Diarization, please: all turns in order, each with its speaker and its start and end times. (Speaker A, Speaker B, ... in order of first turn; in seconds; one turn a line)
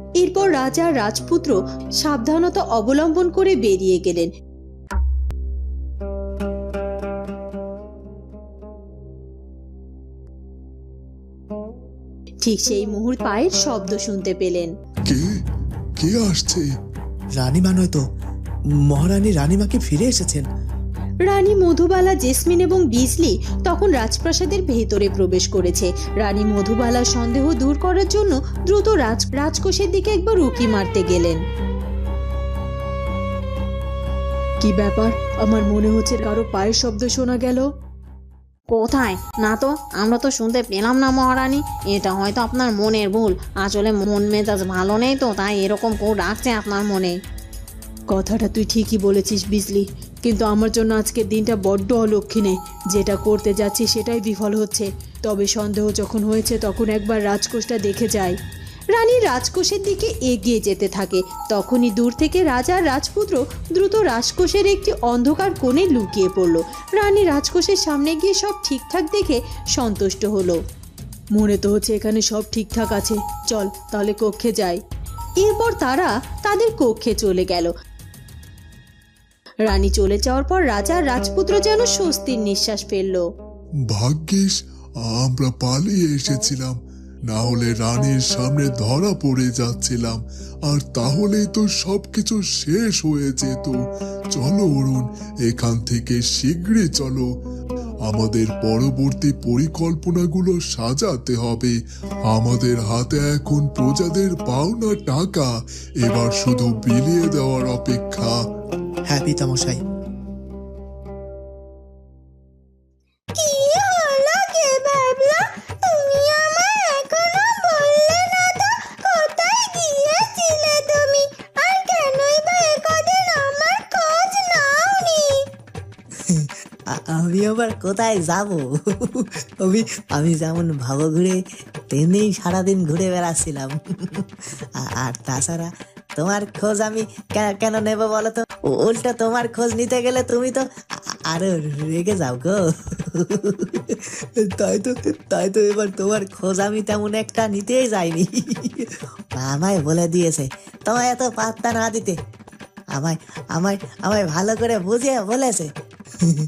Speaker A: 0.2-4.3
Speaker A: 12.4-14.7
Speaker B: 16.0-16.6
Speaker C: 17.4-18.0
Speaker C: 18.9-20.4
Speaker A: 21.3-31.4
Speaker A: 34.6-37.7
Speaker D: 38.7-39.2
Speaker E: 39.3-39.8
Speaker D: 40.0-47.1
Speaker A: 48.1-58.4
Speaker A: 58.9-70.6
Speaker A: 71.4-74.8
Speaker A: 75.4-77.7
Speaker A: 79.7-83.2
Speaker B: 83.9-84.6
Speaker B: 85.1-86.8
Speaker B: 87.3-93.8
Speaker B: 94.3-97.3
Speaker B: 98.1-101.8
Speaker B: 102.3-105.5
Speaker B: 106.0-108.3
Speaker C: 109.1-109.8
Speaker E: 126.3-131.4
Speaker E: 131.9-134.2
Speaker E: 134.8-140.7
Speaker E: 141.3-142.6
Speaker E: 143.2-144.0
Speaker E: 144.5-148.8
Speaker E: 149.4-152.2
Speaker E: 152.9-155.7